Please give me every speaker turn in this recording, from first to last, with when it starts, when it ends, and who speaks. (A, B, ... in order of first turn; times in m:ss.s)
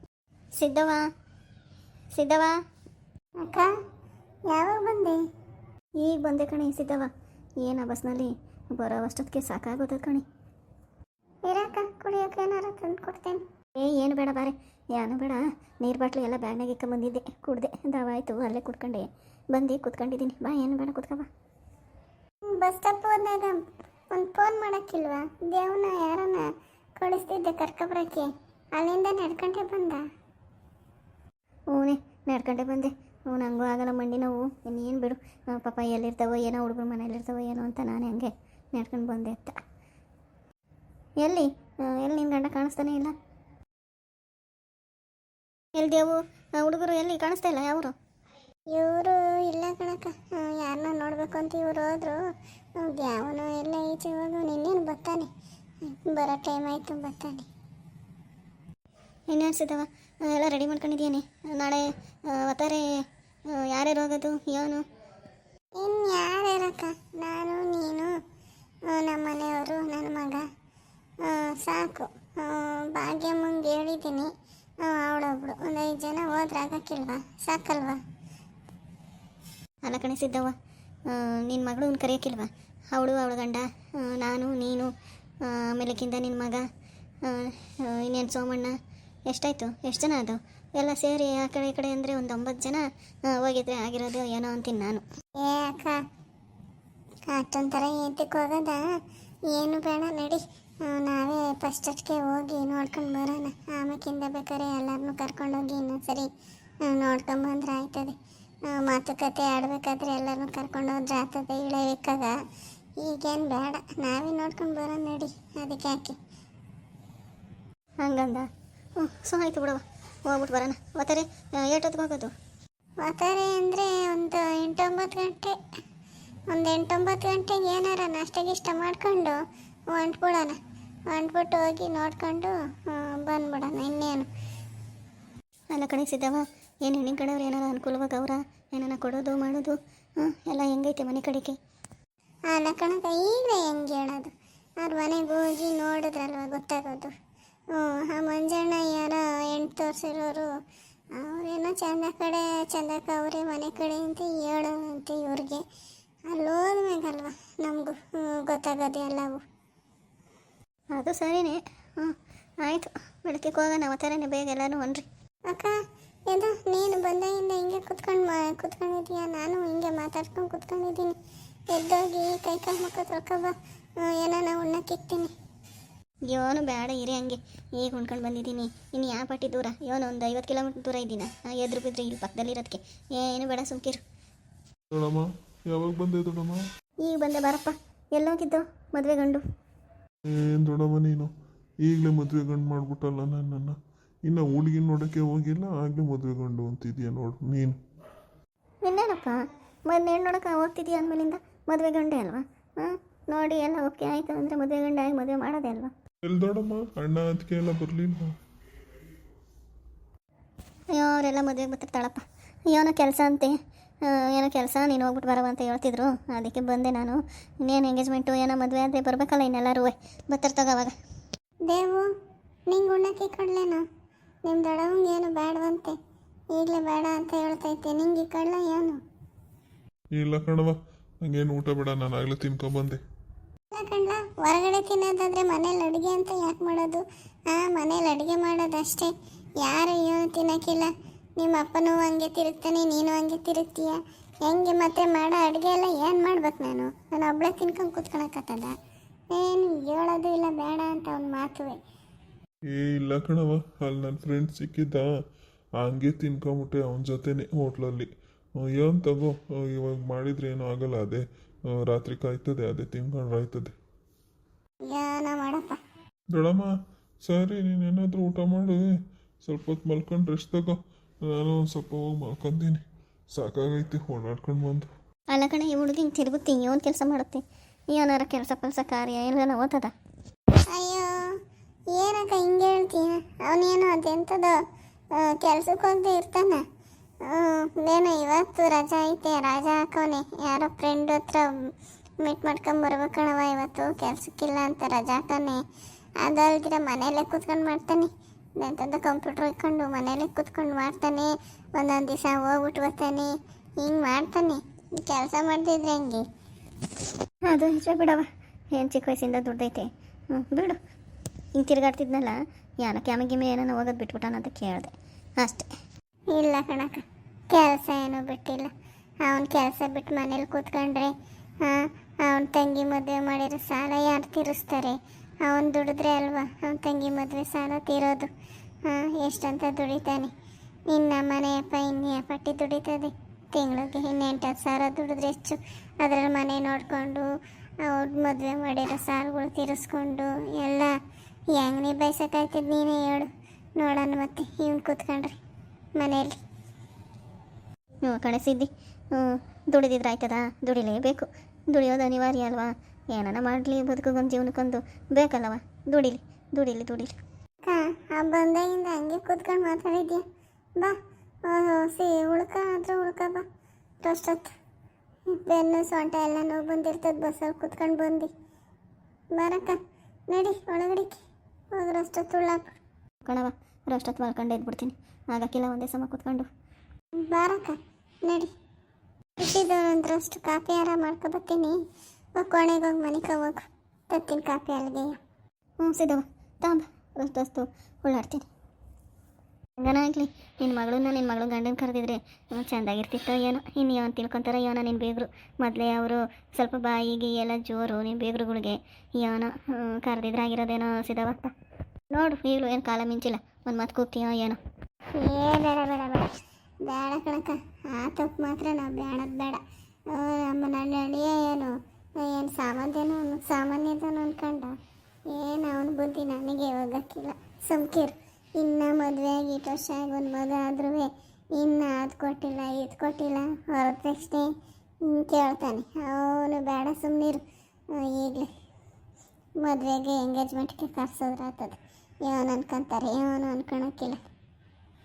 0:00.6-0:01.0 A
0:02.1-0:02.5 A
0:03.4-0:03.7 B
0:04.5-0:05.2 B
0:06.0-0:07.1 A
0:07.6-0:10.2 A
0:11.5-0:13.4 B
0:13.8-0:21.3 A
0:22.5-0:23.6 B
0:24.1-0:26.5 B
0:27.0-0:30.0 B
0:31.7-0:39.6 A
0:41.2-0:43.1 A
0:45.8-0:47.9 A
0:48.7-0:52.2 B
0:52.8-0:55.3 B
0:55.9-0:57.5 B
0:59.3-1:02.9 A
1:03.5-1:04.8 A
1:05.8-1:08.1 B
1:08.9-1:10.4 B
1:11.2-1:14.3 B
1:14.8-1:18.0 B
1:19.8-1:20.6 A
1:21.1-1:24.9 A
1:25.5-1:26.6 A
1:27.3-1:28.7 A
1:29.3-1:35.0 A
1:35.4-1:36.0 B
1:37.3-1:38.8 B
1:39.5-1:46.3 B
1:46.8-1:48.2 B
1:48.7-1:52.4 B
1:53.0-1:56.2 B
1:58.0-2:02.3 A
2:03.0-2:05.6 B
2:06.5-2:09.4 B
2:09.9-2:10.6 B
2:11.1-2:14.3 B
2:15.7-2:21.6 A
2:22.5-2:27.1 B
2:27.7-2:30.5 B
2:31.2-2:35.6 B
2:36.3-2:39.4 B
2:40.9-2:45.0 A
2:45.5-2:45.7 B
2:46.3-2:51.2 B
2:51.7-2:55.3 B
2:56.3-3:04.0 A
3:04.9-3:06.6 C
3:07.0-3:09.4 A
3:10.3-3:11.3 C
3:11.8-3:17.8 C
3:18.8-3:25.9 A
3:26.2-3:28.4 C
3:30.9-3:40.9 A
3:41.7-3:42.1 B
3:42.7-3:43.8 B
3:44.5-3:46.0 B
3:46.5-3:49.0 B
3:50.1-3:53.0 C
3:53.7-4:08.8 B
4:09.3-4:11.8 B
4:12.7-4:15.1 C
4:15.8-4:23.7 C
4:24.9-4:25.8 B
4:26.3-4:26.7 C
4:27.2-4:28.9 C
4:29.4-4:32.8 C
4:33.3-4:34.9 C
4:35.3-4:39.9 A
4:40.7-4:41.3 B
4:41.9-4:44.6 B
4:45.2-4:46.6 B
4:47.2-4:51.7 B
4:52.2-4:55.6 B
4:56.2-5:06.2 B
5:07.5-5:10.8 A
5:11.6-5:15.7 A
5:16.3-5:18.7 B
5:19.2-5:28.3 B
5:28.9-5:30.3 B
5:30.9-5:37.3 B
5:37.8-5:40.9 B
5:41.6-5:45.4 B
5:46.0-5:46.4 B
5:48.0-5:57.2 A
5:57.6-6:00.2 B
6:01.5-6:03.4 B
6:04.0-6:04.5 B
6:05.3-6:08.3 B
6:09.3-6:11.2 B
6:11.7-6:12.7 B
6:13.2-6:16.5 A
6:17.2-6:18.5 B
6:19.4-6:21.8 B
6:22.4-6:25.2 B
6:25.8-6:28.4 A
6:29.8-6:41.5 A
6:42.1-6:44.6 A
6:45.2-6:46.3 B
6:46.8-6:54.8 B
6:55.3-7:04.5 B
7:05.0-7:07.4 B
7:07.9-7:08.5 B
7:09.6-7:14.2 B